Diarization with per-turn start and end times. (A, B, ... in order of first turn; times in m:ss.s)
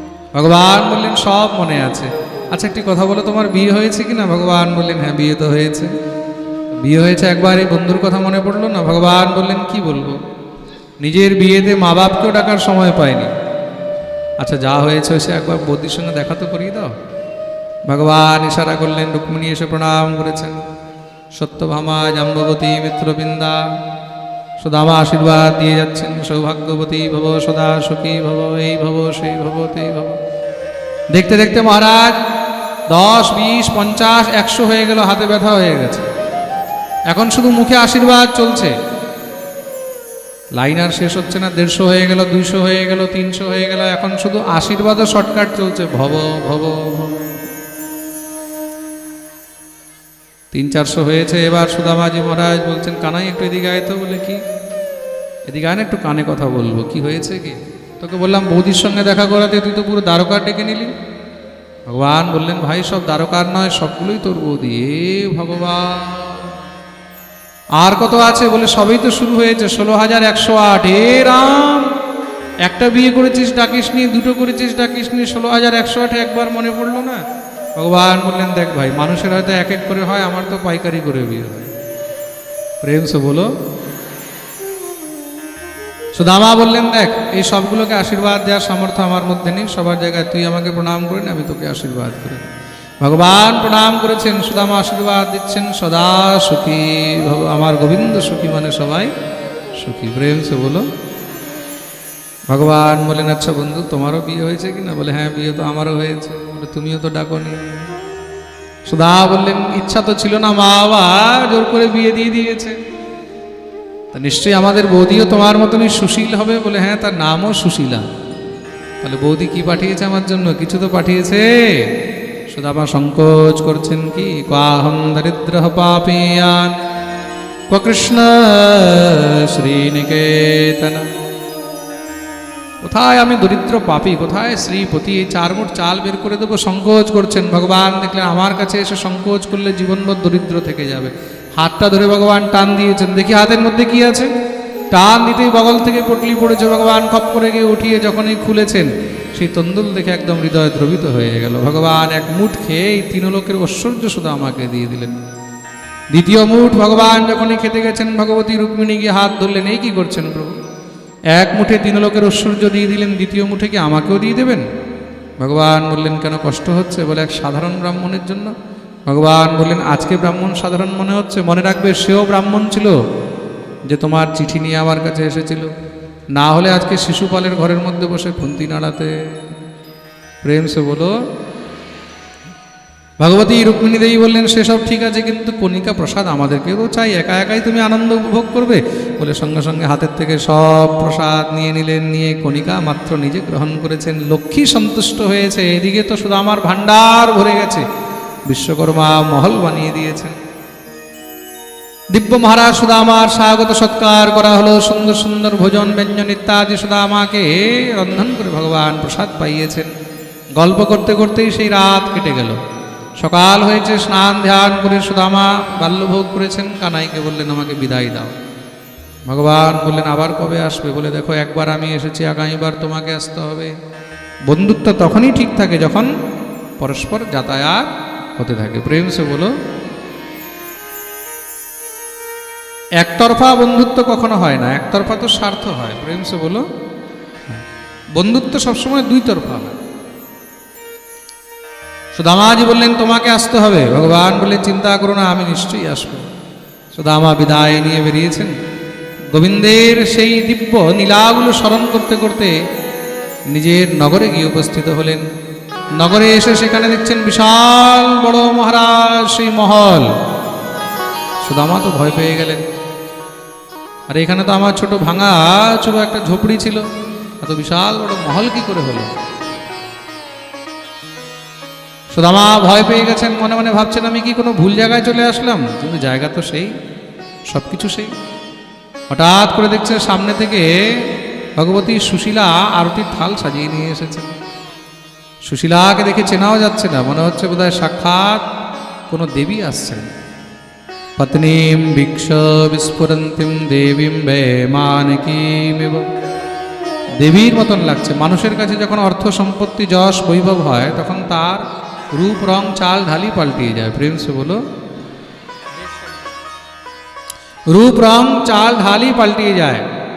0:00.3-0:05.9 A
0:06.7-0:10.2 A
0:11.0-0:13.3 A
0:14.4-0:16.9 A
0:17.9-0:20.6 A
0:21.3-0:23.6 A
0:24.6-0:30.2 A
0:31.1-0:32.2 A
0:32.9-0:36.1 A
0:37.1-0:38.7 A
0:40.6-0:47.3 A
0:50.5-0:54.4 A
0:55.5-1:00.9 A
1:01.9-1:06.6 A
1:07.8-1:11.9 A
1:12.6-1:17.2 A
1:17.8-1:21.7 A
1:22.8-1:23.5 A
1:26.2-1:32.5 A
1:33.0-1:39.1 A
1:39.8-1:40.8 A
1:42.5-1:47.9 A
1:48.9-1:52.8 A
1:54.1-1:58.0 A
1:59.0-2:01.9 A
2:02.5-2:06.8 A
2:07.7-2:11.1 A
2:12.8-2:24.3 A
2:24.9-2:35.2 A
2:36.1-2:40.6 A
2:41.3-2:44.6 A
2:45.4-2:48.5 A
2:49.1-2:53.0 A
2:53.8-2:55.7 A
2:56.3-2:59.6 A
3:00.4-3:01.1 A
3:03.2-3:17.8 A
3:18.5-3:20.4 A
3:22.1-3:29.9 A
3:30.6-3:32.6 A
3:33.2-3:38.4 A
3:39.3-3:43.7 A
3:44.5-3:46.1 A
3:46.8-3:49.5 A
3:53.0-3:56.6 A
3:58.2-3:59.8 A
4:02.1-4:06.3 A
4:06.9-4:08.5 A
4:09.3-4:12.6 A
4:13.5-4:15.3 A
4:16.0-4:20.1 A
4:21.4-4:22.6 A
4:24.1-4:26.8 A
4:27.4-4:29.1 A
4:32.1-4:36.7 A
4:37.5-4:38.1 A
4:39.1-4:44.3 A
4:45.4-4:48.4 A
4:49.1-4:50.1 A
4:51.2-4:56.1 A
4:57.2-5:04.6 A
5:07.7-5:09.9 A